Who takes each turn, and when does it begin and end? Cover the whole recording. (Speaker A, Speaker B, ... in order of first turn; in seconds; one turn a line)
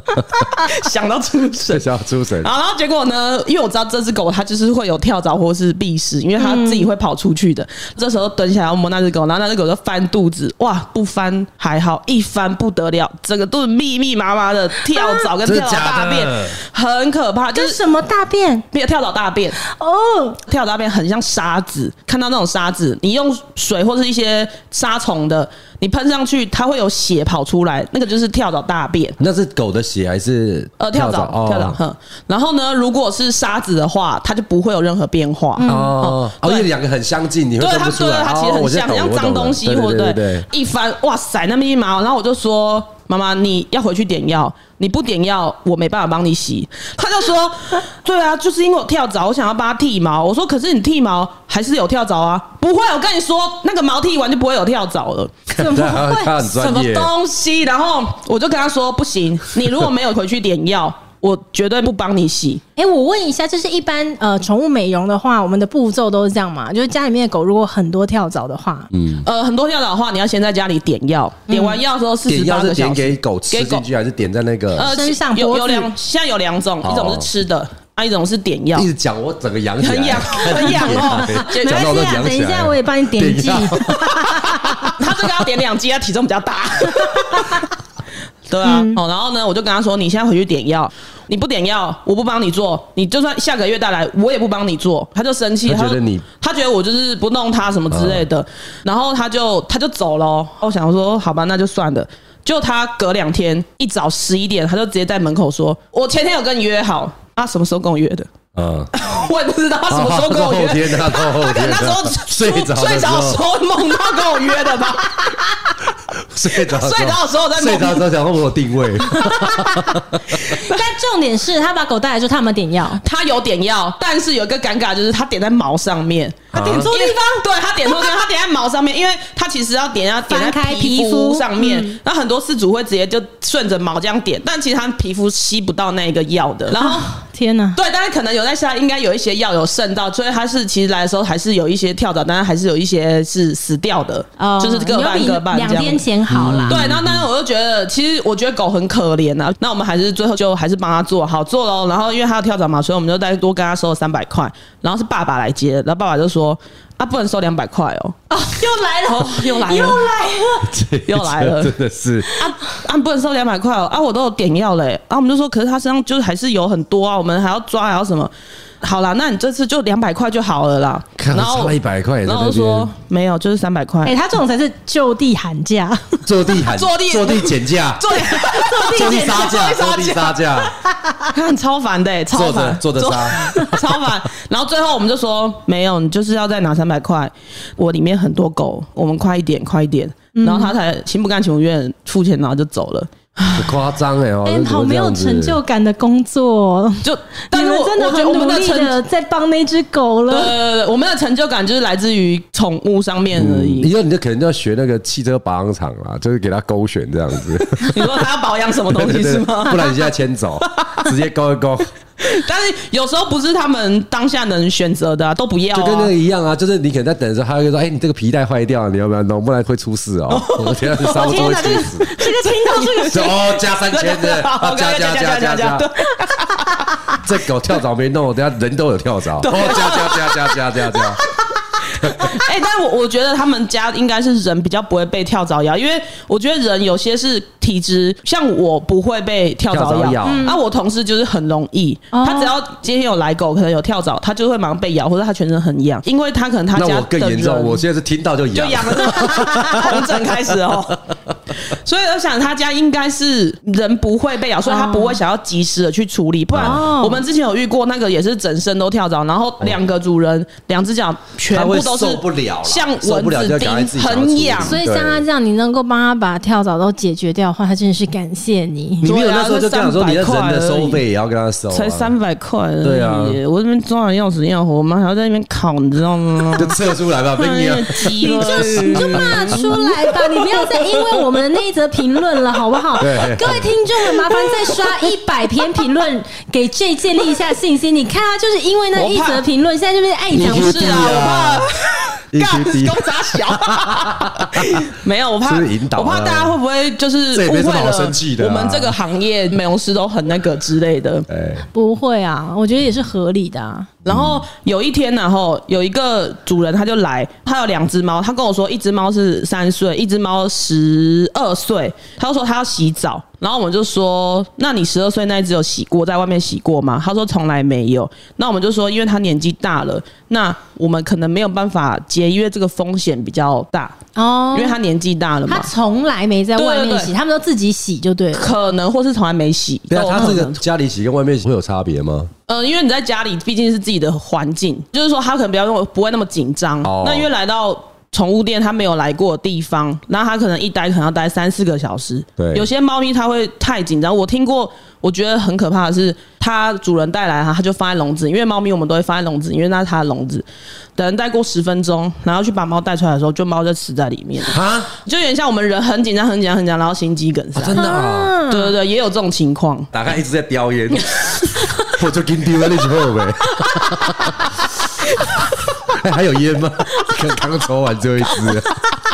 Speaker A: 0.2-1.9
Speaker B: 1.7-2.5
Speaker A: 2.4-17.8
Speaker C: 6.4-6.8
Speaker C: 14.9-15.2
Speaker B: 15.4-16.6
Speaker C: 17.5-18.6
Speaker A: 18.7-19.6
Speaker C: 19.6-20.4
Speaker A: 20.5-29.2
Speaker B: 29.2-31.8
Speaker A: 30.8-36.6
Speaker C: 35.6-36.0
Speaker B: 35.6-40.5
Speaker A: 37.6-55.4
Speaker B: 55.5-57.1
Speaker C: 55.5-56.3
Speaker A: 56.4-62.6
Speaker C: 62.8-68.9
Speaker B: 68.9-69.2
Speaker A: 69.2-73.8
Speaker C: 71.5-71.8
Speaker B: 72.3-74.9
Speaker A: 74.7-78.9
Speaker C: 74.8-75.9
Speaker B: 76.8-77.3
Speaker B: 78.7-84.9
Speaker A: 79.8-81.9
Speaker C: 80.9-85.0
Speaker A: 84.9-87.7
Speaker C: 87.0-87.6
Speaker A: 88.5-108.3
Speaker C: 88.6-89.0
Speaker B: 95.7-96.2
Speaker B: 97.9-98.2
Speaker B: 108.5-108.9
Speaker A: 108.9-115.6
Speaker B: 109.9-113.4
Speaker B: 116.3-120.4
Speaker A: 116.5-118.0
Speaker C: 119.1-123.0
Speaker A: 123.0-137.1
Speaker B: 126.5-126.9
Speaker C: 126.5-127.4
Speaker C: 130.3-132.0
Speaker C: 136.7-137.8
Speaker A: 137.8-146.0
Speaker C: 144.4-146.8
Speaker B: 146.3-147.2
Speaker A: 146.6-158.2
Speaker C: 158.3-160.7
Speaker A: 159.1-160.1
Speaker B: 160.6-162.4
Speaker A: 161.1-161.7
Speaker A: 162.4-168.3
Speaker A: 168.8-174.2
Speaker B: 171.2-172.9
Speaker C: 174.0-176.2
Speaker B: 176.2-178.2
Speaker A: 176.6-180.4
Speaker C: 178.2-179.7
Speaker B: 178.8-180.7
Speaker C: 180.8-181.3
Speaker A: 181.3-193.7
Speaker B: 182.3-183.8
Speaker C: 190.3-190.7
Speaker B: 193.5-195.6
Speaker C: 194.4-200.5
Speaker A: 197.0-199.0
Speaker A: 200.3-203.9
Speaker B: 203.3-208.1
Speaker A: 207.8-210.0
Speaker B: 208.9-211.9
Speaker A: 212.2-216.1
Speaker B: 215.7-222.1
Speaker A: 220.3-221.5
Speaker C: 221.0-223.3
Speaker A: 222.2-226.8
Speaker B: 223.1-225.8
Speaker B: 227.1-231.2
Speaker A: 229.4-231.0
Speaker A: 231.8-247.8
Speaker B: 232.0-232.3
Speaker B: 239.7-240.4
Speaker C: 240.2-240.6
Speaker C: 242.1-242.5
Speaker B: 246.7-250.3
Speaker A: 248.5-251.0
Speaker A: 251.6-264.8
Speaker C: 254.6-255.2
Speaker B: 256.5-256.8
Speaker C: 256.6-257.2
Speaker B: 261.5-265.2
Speaker C: 264.6-269.1
Speaker B: 269.0-272.1
Speaker A: 269.0-271.0
Speaker A: 271.7-276.8
Speaker B: 272.8-273.4
Speaker B: 276.6-279.7
Speaker A: 277.3-280.7
Speaker C: 278.2-291.1
Speaker B: 283.0-283.7
Speaker A: 288.9-289.4
Speaker B: 290.3-291.7
Speaker A: 290.4-301.3
Speaker B: 292.3-294.8
Speaker B: 295.4-296.6
Speaker B: 297.3-298.9
Speaker B: 301.3-301.6
Speaker C: 301.7-303.9
Speaker B: 304.1-304.4
Speaker A: 304.1-324.0
Speaker C: 324.1-324.8
Speaker A: 324.5-325.7
Speaker C: 325.5-328.5
Speaker A: 326.6-327.1
Speaker A: 328.3-330.6
Speaker B: 329.9-332.3
Speaker A: 332.5-350.4
Speaker B: 336.8-337.3
Speaker B: 342.4-342.7
Speaker A: 350.9-357.9
Speaker B: 354.5-354.9
Speaker B: 357.5-358.3
Speaker C: 357.7-358.7
Speaker A: 358.5-359.9
Speaker B: 359.9-364.4
Speaker B: 365.9-368.8